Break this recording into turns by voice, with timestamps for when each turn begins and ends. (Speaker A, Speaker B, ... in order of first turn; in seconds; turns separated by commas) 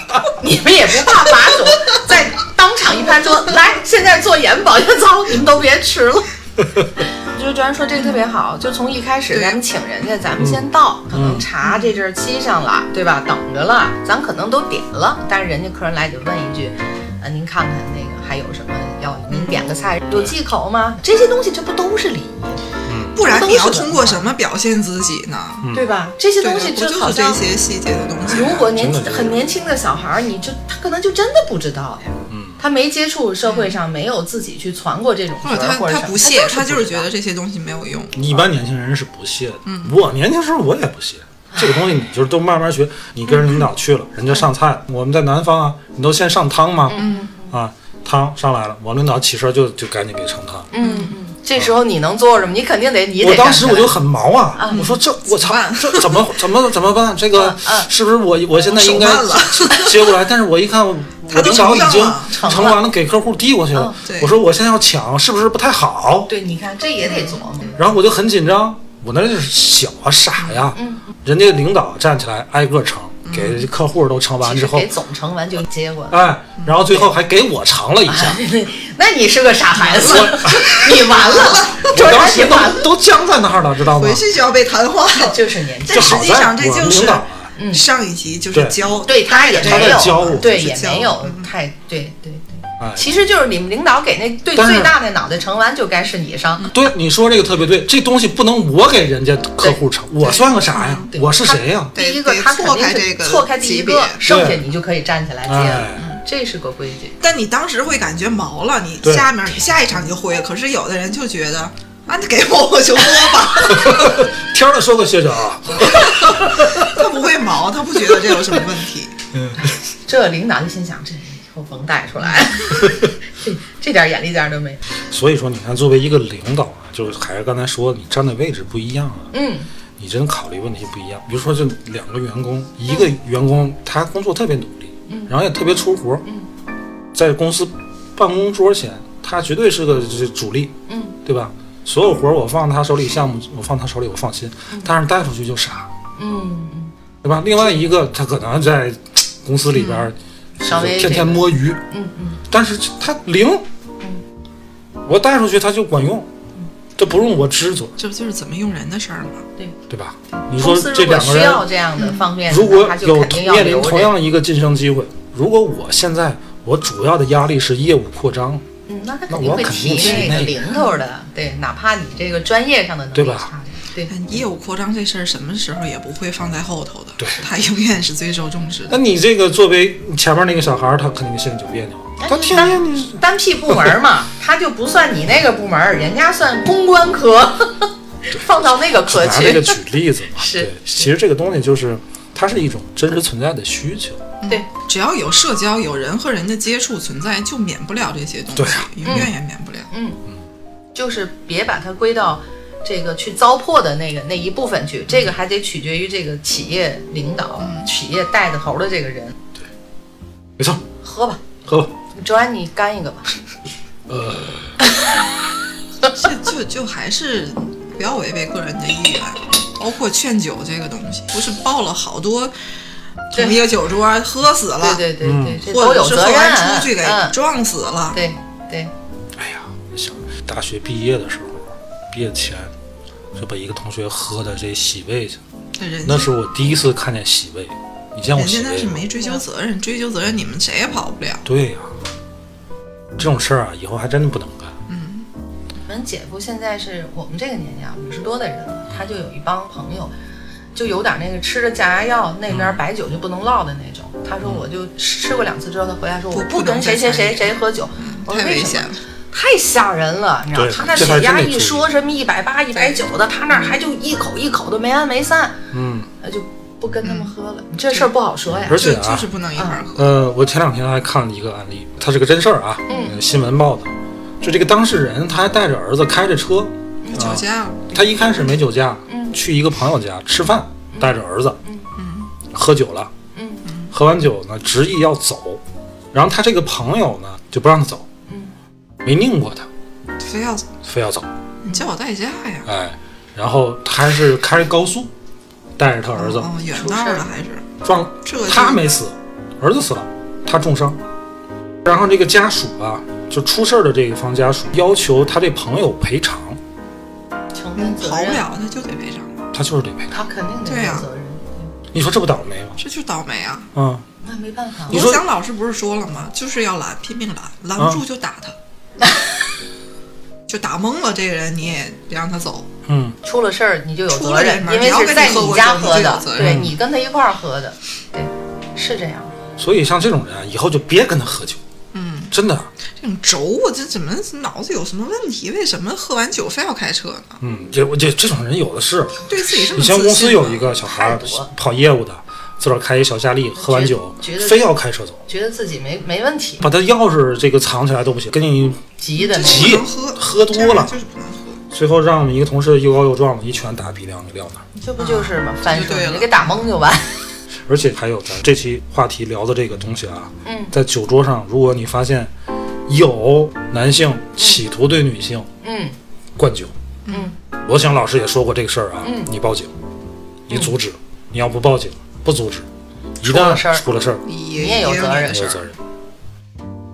Speaker A: 0.4-22.6, Speaker B: 1.1-1.9, Speaker B: 9.3-9.6, Speaker C: 10.4-11.5, Speaker B: 11.6-12.0, Speaker B: 19.3-19.7, Speaker C: 22.9-23.3, Speaker B: 23.1-25.7, Speaker A: 23.2-24.3, Speaker C: 25.6-25.9, Speaker A: 25.7-27.4, Speaker B: 26.4-28.7, Speaker A: 28.3-37.1, Speaker C: 28.6-29.4, Speaker C: 32.3-32.6, Speaker B: 33.5-33.8, Speaker B: 35.4-38.4, Speaker C: 38.1-50.7, Speaker B: 39.7-40.0, Speaker A: 41.5-41.8, Speaker A: 46.9-47.5, Speaker B: 47.0-47.3, Speaker A: 50.7-53.9, Speaker B: 50.8-51.1, Speaker C: 53.2-66.3, Speaker A: 54.6-54.9, Speaker B: 54.7-56.3, Speaker A: 57.4-57.9, Speaker B: 58.7-60.2, Speaker B: 61.3-62.7, Speaker A: 62.3-62.8, Speaker B: 64.0-64.3, Speaker A: 66.3-67.9, Speaker B: 67.0-67.7, Speaker C: 67.8-74.9, Speaker B: 70.4-70.6, Speaker A: 70.7-71.1, Speaker B: 73.2-73.7, Speaker A: 74.4-76.2, Speaker C: 76.1-78.4, Speaker A: 78.1-82.9, Speaker B: 79.8-82.0, Speaker C: 80.1-80.8, Speaker C: 81.9-84.2, Speaker B: 83.9-91.5, Speaker A: 85.1-86.5, Speaker C: 85.9-87.5, Speaker A: 87.6-87.8, Speaker C: 88.5-88.8, Speaker A: 89.0-96.7, Speaker C: 89.6-90.5, Speaker C: 92.8-93.1, Speaker C: 94.5-95.0, Speaker C: 96.7-102.0, Speaker B: 100.2-101.1, Speaker A: 101.1-107.2, Speaker B: 102.0-104.2, Speaker C: 104.2-104.6, Speaker C: 105.5-106.1, Speaker B: 106.0-106.2, Speaker B: 107.2-114.2, Speaker C: 109.0-109.3, Speaker C: 113.7-116.9, Speaker B: 115.8-119.1, Speaker C: 119.3-119.7, Speaker A: 119.6-124.8, Speaker C: 122.8-123.1, Speaker C: 125.1-129.3, Speaker A: 129.3-129.7, Speaker C: 130.0-136.2, Speaker C: 137.1-140.7, Speaker A: 140.9-141.2, Speaker C: 141.2-145.9, Speaker A: 146.2-146.9, Speaker C: 147.2-151.8, Speaker B: 149.7-150.1, Speaker A: 150.6-152.4, Speaker C: 152.5-153.7, Speaker C: 155.1-156.3, Speaker C: 156.9-157.9, Speaker B: 158.0-159.5, Speaker C: 159.9-161.7, Speaker A: 160.4-164.1, Speaker C: 162.5-168.6, Speaker A: 168.9-174.2, Speaker C: 169.3-170.6, Speaker B: 169.9-171.0, Speaker C: 173.1-173.5, Speaker B: 174.1-179.0, Speaker C: 177.2-177.4, Speaker C: 178.9-184.0, Speaker A: 182.2-189.8, Speaker C: 188.3-194.2, Speaker A: 190.3-191.1, Speaker B: 194.4-199.9, Speaker C: 198.6-199.3, Speaker A: 199.0-199.3, Speaker A: 199.9-200.2, Speaker A: 200.9-209.4, Speaker B: 207.6-207.9, Speaker C: 210.6-210.8, Speaker A: 211.0-211.4, Speaker C: 211.6-211.9, Speaker A: 212.1-213.3, Speaker C: 214.1-214.8, Speaker B: 216.0-222.5, Speaker B: 223.3-225.1, Speaker A: 224.8-227.4, Speaker C: 225.2-225.6, Speaker B: 225.6-228.2, Speaker A: 228.1-228.9, Speaker C: 229.4-232.7, Speaker C: 233.3-235.4, Speaker B: 235.8-236.3, Speaker C: 236.0-239.1, Speaker B: 238.3-241.4, Speaker A: 239.2-239.4, Speaker C: 241.4-241.9, Speaker C: 243.2-244.8, Speaker B: 244.9-245.3, Speaker A: 245.9-250.1, Speaker A: 250.7-265.6, Speaker C: 252.5-252.8, Speaker B: 256.3-259.0, Speaker C: 260.6-261.8, Speaker B: 262.7-263.0, Speaker C: 265.7-266.1, Speaker A: 266.2-268.8, Speaker B: 267.0-267.3, Speaker C: 268.7-269.3, Speaker B: 268.7-270.1, Speaker C: 269.9-281.6, Speaker A: 272.9-273.2, Speaker A: 277.0-277.3, Speaker B: 277.1-277.9, Speaker A: 279.1-279.4, Speaker B: 281.9-282.3, Speaker C: 282.5-283.1, Speaker A: 283.4-283.6, Speaker B: 283.6-283.9, Speaker C: 283.9-285.6, Speaker C: 286.1-288.1, Speaker A: 288.3-288.5, Speaker C: 289.0-289.7, Speaker B: 290.2-290.7, Speaker C: 290.8-291.3, Speaker B: 291.6-292.7, Speaker C: 292.7-295.1, Speaker C: 295.8-296.5, Speaker B: 296.2-297.7, Speaker A: 296.7-297.2, Speaker C: 297.8-301.0, Speaker B: 298.2-298.8, Speaker C: 301.9-306.6, Speaker A: 307.5-308.4, Speaker B: 307.8-309.5, Speaker C: 309.5-310.1, Speaker A: 310.1-311.7, Speaker B: 310.6-311.1, Speaker C: 311.9-312.8, Speaker B: 312.8-313.7, Speaker C: 313.7-314.0, Speaker A: 314.2-315.1, Speaker C: 314.9-315.2, Speaker B: 314.9-318.6, Speaker B: 320.5-322.7, Speaker C: 322.9-323.2, Speaker A: 323.2-329.3, Speaker B: 324.1-326.6, Speaker C: 326.4-326.7, Speaker C: 329.6-331.6, Speaker B: 331.9-332.3, Speaker C: 332.3-332.7, Speaker B: 333.0-337.4, Speaker C: 337.4-345.2, Speaker B: 339.3-340.7, Speaker A: 340.8-341.5, Speaker A: 343.6-344.7, Speaker A: 345.3-346.6, Speaker C: 346.6-348.8, Speaker A: 349.0-349.8, Speaker B: 349.2-351.6, Speaker C: 349.4-350.9, Speaker C: 351.7-354.6, Speaker A: 354.8-357.3, Speaker B: 355.0-356.6, Speaker C: 357.7-362.3, Speaker A: 360.4-360.7, Speaker C: 362.9-365.5, Speaker A: 365.6-365.9, Speaker C: 366.4-366.7, Speaker B: 367.1-367.3, Speaker A: 367.1-367.4, Speaker C: 367.6-369.7, Speaker A: 369.0-369.3, Speaker C: 370.5-372.7, Speaker C: 373.2-374.2, Speaker A: 373.2-373.9, Speaker B: 374.2-375.7, Speaker A: 374.5-375.5, Speaker C: 375.3-375.7